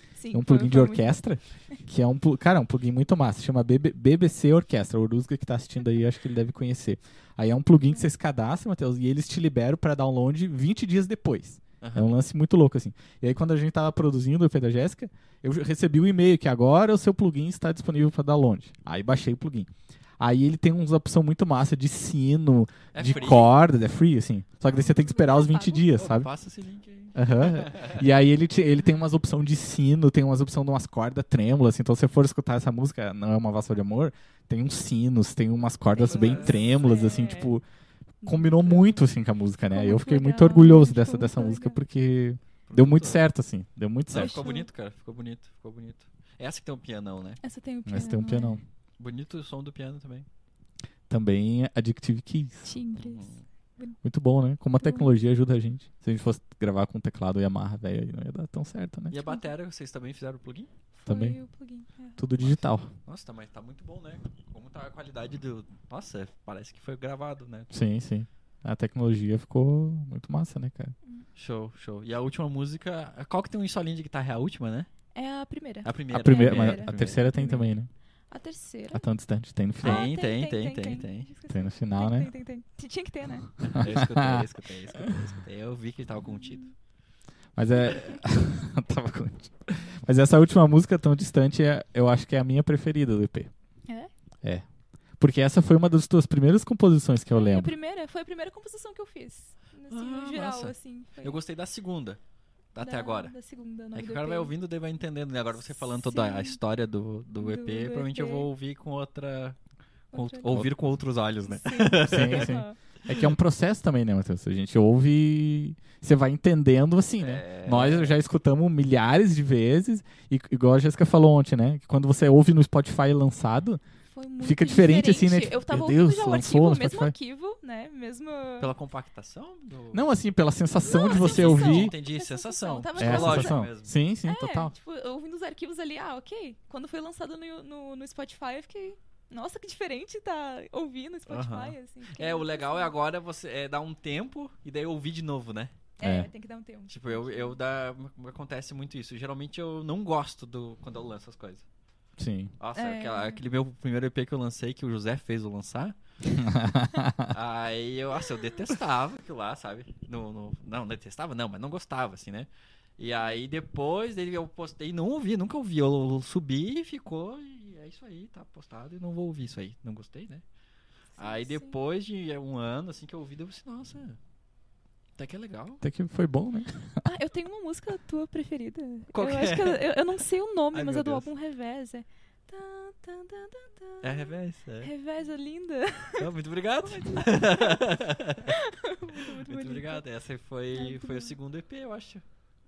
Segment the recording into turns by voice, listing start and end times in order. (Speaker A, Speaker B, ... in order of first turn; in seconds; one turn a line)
Speaker A: 0.2-1.2
Speaker B: 0.3-26.3
Speaker C: 11.8-12.1
Speaker C: 22.9-23.5
Speaker A: 23.0-23.5
Speaker A: 24.7-25.9
Speaker C: 25.9-28.0
Speaker B: 27.1-37.6
Speaker A: 35.9-37.6
Speaker C: 36.1-36.8
Speaker A: 38.2-39.0
Speaker B: 38.2-44.4
Speaker A: 39.7-41.8
Speaker C: 42.7-43.2
Speaker C: 44.1-47.4
Speaker A: 44.1-44.7
Speaker A: 47.4-48.6
Speaker B: 47.9-48.6
Speaker C: 49.0-50.3
Speaker B: 51.1-52.7
Speaker A: 52.6-54.0
Speaker C: 53.0-53.4
Speaker B: 54.0-59.2
Speaker A: 54.8-55.1
Speaker C: 59.1-60.7
Speaker A: 61.0-62.2
Speaker B: 61.1-61.4
Speaker B: 62.2-62.9
Speaker C: 62.4-67.7
Speaker B: 67.7-71.0
Speaker C: 71.4-74.9
Speaker A: 75.1-77.7
Speaker C: 75.8-77.2
Speaker B: 76.1-77.9
Speaker A: 78.3-79.0
Speaker B: 78.9-80.1
Speaker C: 79.8-81.3
Speaker A: 79.8-83.5
Speaker B: 81.5-82.3
Speaker C: 83.6-86.7
Speaker B: 83.8-85.2
Speaker A: 86.3-86.7
Speaker B: 87.6-93.5
Speaker B: 95.2-97.7
Speaker A: 97.3-101.4
Speaker C: 99.9-102.2
Speaker C: 102.8-103.3
Speaker A: 102.8-104.5
Speaker C: 103.9-109.6
Speaker A: 105.9-106.6
Speaker A: 107.4-108.5
Speaker A: 110.1-110.6
Speaker C: 110.1-112.6
Speaker A: 111.5-112.8
Speaker B: 112.0-123.8
Speaker C: 117.2-118.2
Speaker A: 124.1-128.7
Speaker B: 124.4-127.1
Speaker C: 128.6-130.1
Speaker B: 129.9-131.9
Speaker A: 130.8-133.7
Speaker C: 130.9-133.9
Speaker B: 133.0-134.7
Speaker A: 134.2-143.0
Speaker C: 141.3-145.8
Speaker A: 146.0-147.6
Speaker B: 146.0-146.3
Speaker C: 146.9-151.7
Speaker B: 152.2-152.5
Speaker C: 152.6-155.9
Speaker A: 152.8-153.4
Speaker B: 156.4-157.3
Speaker C: 157.3-170.4
Speaker A: 171.2-171.8
Speaker C: 171.2-174.2
Speaker C: 175.2-175.8
Speaker B: 175.8-177.0
Speaker A: 177.0-186.3
Speaker C: 179.1-179.8
Speaker C: 180.7-181.3
Speaker C: 184.0-184.9
Speaker C: 186.2-188.6
Speaker A: 186.8-187.8
Speaker A: 188.5-190.0
Speaker C: 189.2-192.2
Speaker A: 190.8-191.3